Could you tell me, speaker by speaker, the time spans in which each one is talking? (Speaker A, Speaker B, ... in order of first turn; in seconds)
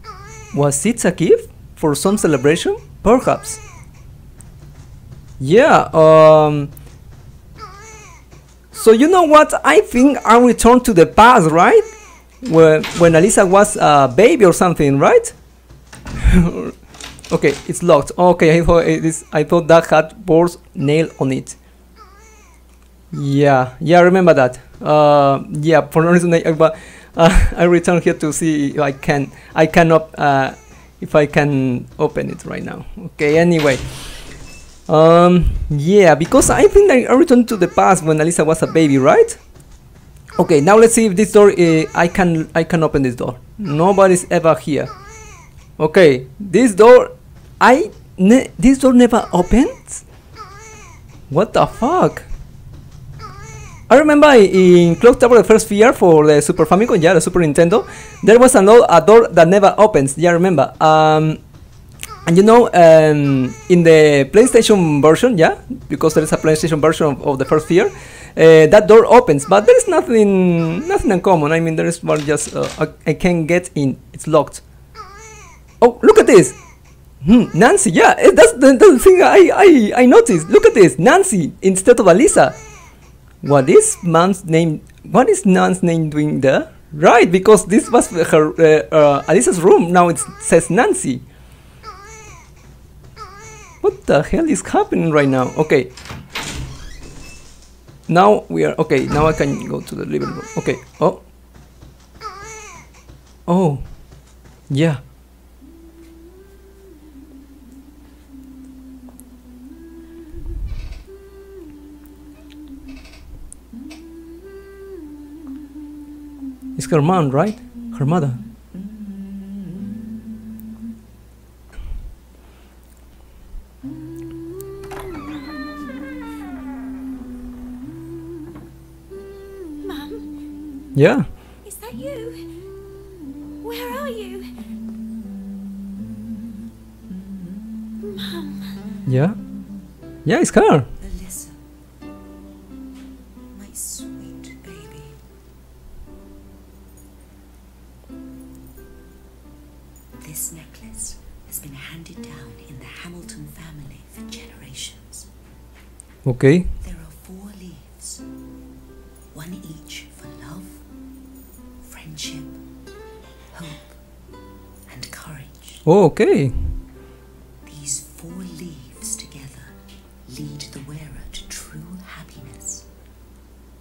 Speaker A: 0.5-3.6, 5.4-6.7, 8.7-11.9, 12.4-15.3, 16.2-16.7, 17.3-21.6, 23.1-33.9, 34.9-39.4, 40.4-44.9, 45.8-50.0, 51.3-52.3, 53.9-61.4, 62.2-74.6, 75.8-76.6, 77.2-82.6, 83.4-91.2, 93.8-95.9, 98.1-101.2, 103.5-103.9, 104.7-105.0, 116.8-118.4, 130.9-131.3, 139.1-139.4, 140.2-140.9, 156.2-156.7, 165.8-166.5
Speaker B: 129.8-130.3, 131.6-132.4, 133.6-134.5, 138.0-138.8
Speaker C: 141.0-141.6, 143.5-145.2, 150.2-155.3, 156.8-158.2, 159.3-160.8, 161.9-162.6, 163.5-164.0, 164.9-165.8, 167.7-169.7, 170.3-172.9